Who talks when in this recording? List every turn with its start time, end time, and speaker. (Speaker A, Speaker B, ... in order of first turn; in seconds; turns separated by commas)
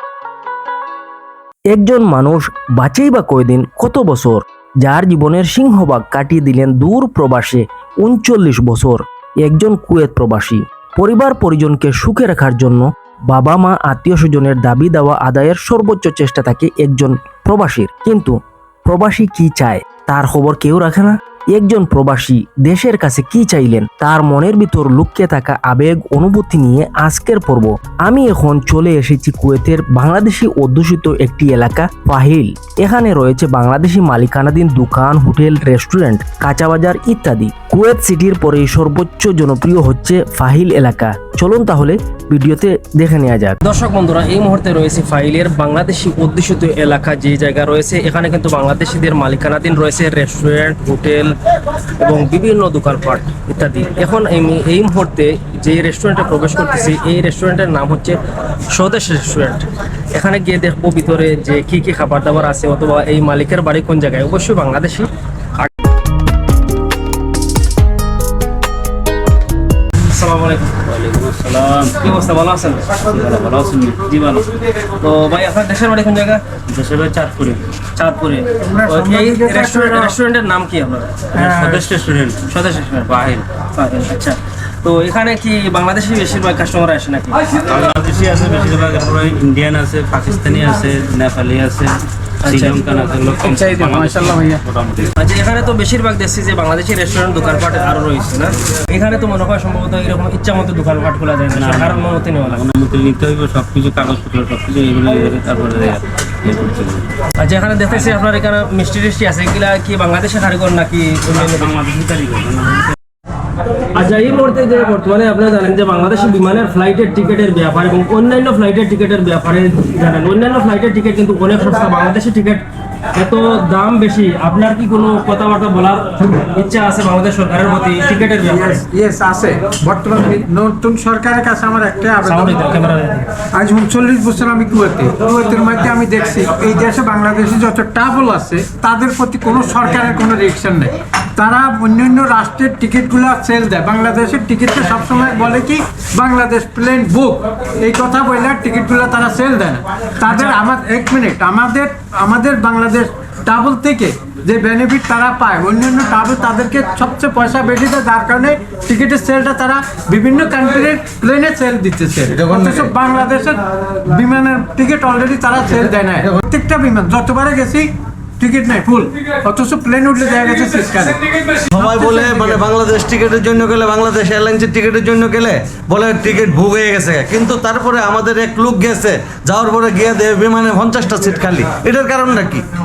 Speaker A: 1.7-43.6, Speaker B: 43.6-51.3, Speaker B: 52.0-58.2, Speaker B: 58.7-65.7, Speaker B: 70.1-70.8, Speaker C: 70.9-72.2, Speaker B: 72.0-72.9, Speaker C: 72.9-74.2, Speaker B: 74.1-76.4, Speaker C: 76.7-77.7, Speaker B: 78.0-81.5, Speaker D: 78.6-80.1, Speaker C: 81.3-82.4, Speaker D: 81.5-81.8, Speaker B: 82.4-87.6, Speaker C: 87.6-95.1, Speaker B: 92.4-92.8, Speaker D: 93.6-94.5, Speaker B: 95.2-102.7, Speaker C: 101.5-107.1, Speaker B: 107.4-111.8, Speaker C: 111.3-112.9, Speaker B: 113.9-128.8, Speaker D: 128.4-132.6, Speaker B: 132.2-133.3, Speaker D: 133.5-172.2, Speaker B: 150.3-150.5, Speaker E: 162.3-162.9, Speaker E: 171.7-182.6